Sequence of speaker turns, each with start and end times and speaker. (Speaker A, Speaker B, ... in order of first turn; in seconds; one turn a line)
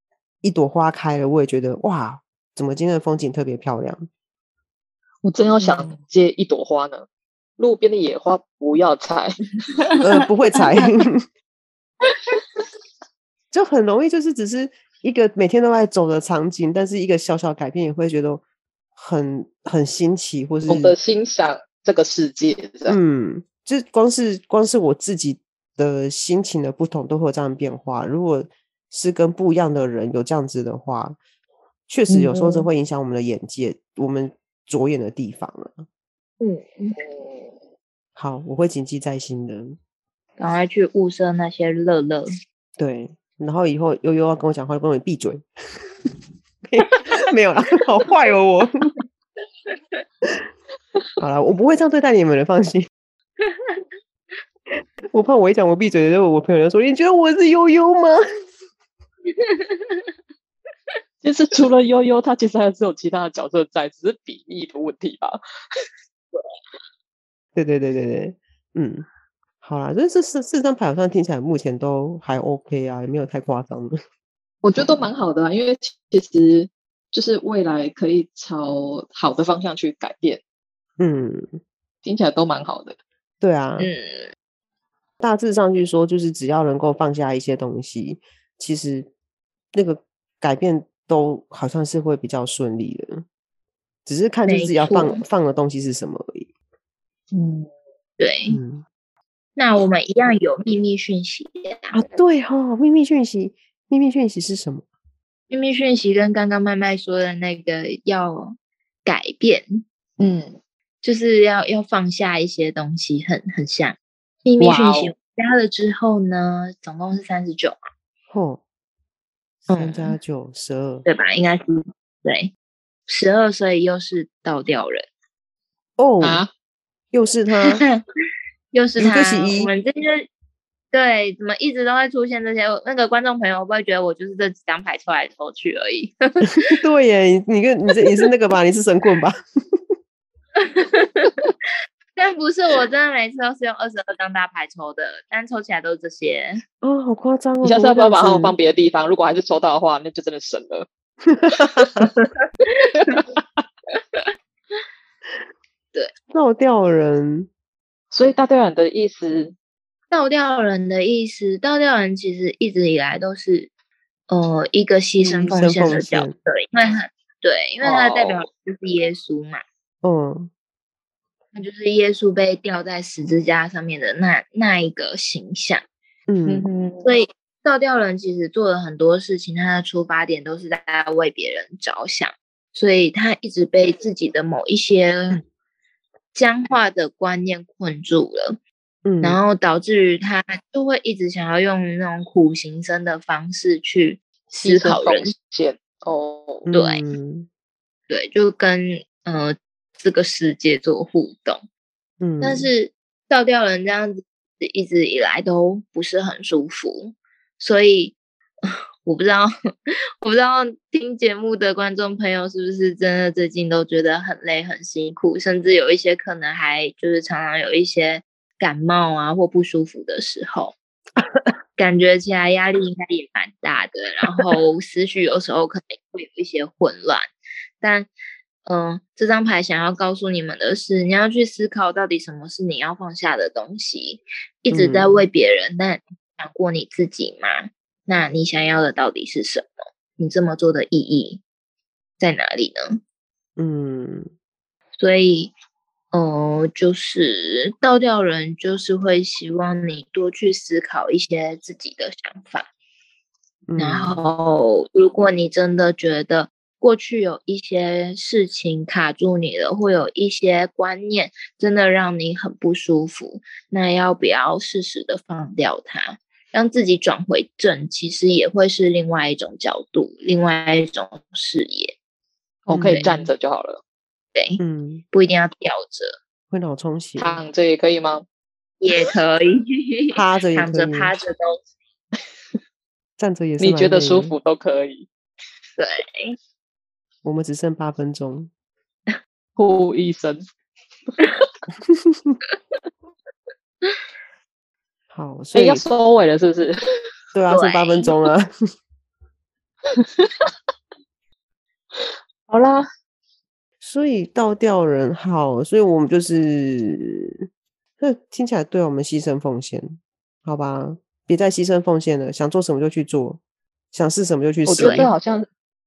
Speaker A: 0.4-4.1
Speaker B: 5.2-7.1
Speaker B: 7.6-9.4
Speaker A: 10.0-11.3
Speaker A: 13.5-18.4
Speaker A: 19.0-20.9
Speaker B: 20.7-23.0
Speaker A: 22.9-31.2
Speaker A: 31.9-35.9
Speaker B: 32.1-32.7
Speaker C: 36.4-37.0
Speaker B: 37.0-37.5
Speaker A: 38.2-39.8
Speaker C: 40.4-42.3
Speaker A: 42.8-45.5
Speaker A: 46.6-48.9
Speaker A: 51.2-52.9
Speaker C: 53.5-53.8
Speaker A: 55.1-58.2
Speaker C: 59.4-60.0
Speaker B: 61.2-65.4
Speaker A: 67.5-69.1
Speaker A: 69.6-74.0
Speaker B: 74.6-80.4
Speaker A: 81.0-81.6
Speaker B: 82.0-83.0
Speaker A: 83.4-83.9
Speaker C: 83.8-84.3
Speaker A: 85.2-89.1
Speaker A: 89.7-93.2
Speaker A: 94.1-96.5
Speaker C: 94.5-95.2
Speaker B: 97.3-97.7
Speaker C: 98.2-98.6
Speaker A: 98.5-98.8
Speaker C: 99.6-102.0
Speaker A: 101.9-104.8
Speaker C: 105.5-109.8
Speaker B: 110.2-110.6
Speaker C: 111.0-117.8
Speaker B: 114.6-115.1
Speaker A: 118.3-118.6
Speaker C: 119.7-120.2
Speaker A: 119.7-121.0
Speaker C: 121.1-122.5
Speaker C: 123.1-125.1
Speaker A: 126.0-126.4
Speaker B: 126.2-126.5
Speaker A: 127.1-127.8
Speaker C: 128.7-130.3
Speaker A: 129.0-129.7
Speaker C: 130.9-136.5
Speaker A: 136.5-139.8
Speaker C: 140.6-141.4
Speaker C: 142.2-146.6
Speaker A: 146.8-148.5
Speaker B: 147.6-150.9
Speaker A: 151.3-152.1
Speaker C: 152.8-153.2
Speaker A: 156.3-157.5
Speaker B: 158.1-159.6
Speaker C: 160.1-163.7
Speaker C: 164.3-169.6
Speaker A: 165.2-166.3
Speaker B: 167.8-168.4
Speaker A: 170.0-170.5
Speaker C: 171.6-175.8
Speaker A: 176.3-176.7
Speaker B: 176.5-177.1
Speaker C: 177.0-185.4
Speaker C: 186.3-188.6
Speaker A: 189.1-189.4
Speaker C: 189.2-195.3
Speaker B: 194.6-196.7
Speaker A: 196.7-197.5
Speaker C: 196.7-197.0
Speaker C: 198.1-201.6
Speaker A: 202.2-202.7
Speaker C: 202.4-208.2
Speaker C: 208.7-209.5
Speaker C: 210.2-220.8
Speaker C: 221.8-227.3
Speaker C: 227.8-228.1
Speaker C: 228.7-241.4
Speaker A: 234.7-235.1
Speaker C: 242.2-243.0
Speaker A: 243.6-244.3
Speaker C: 245.0-245.5
Speaker C: 246.1-252.7
Speaker A: 253.7-254.2
Speaker C: 253.8-271.9
Speaker B: 272.7-273.8
Speaker A: 272.7-273.3
Speaker C: 274.4-274.6
Speaker A: 274.6-275.0
Speaker C: 275.1-276.2
Speaker A: 276.5-277.4
Speaker B: 277.2-278.2
Speaker C: 278.8-281.6
Speaker A: 280.1-281.1
Speaker A: 283.2-284.4
Speaker B: 283.6-285.1
Speaker C: 285.8-286.4
Speaker A: 287.2-288.5
Speaker B: 289.6-290.4
Speaker A: 292.1-292.4
Speaker A: 295.1-295.9
Speaker B: 295.5-296.8
Speaker A: 297.4-298.5
Speaker C: 297.5-298.0
Speaker B: 300.0-300.5
Speaker B: 302.0-302.9
Speaker A: 303.8-307.4
Speaker A: 308.0-313.4
Speaker A: 313.9-315.1
Speaker B: 314.7-315.5
Speaker C: 314.8-315.1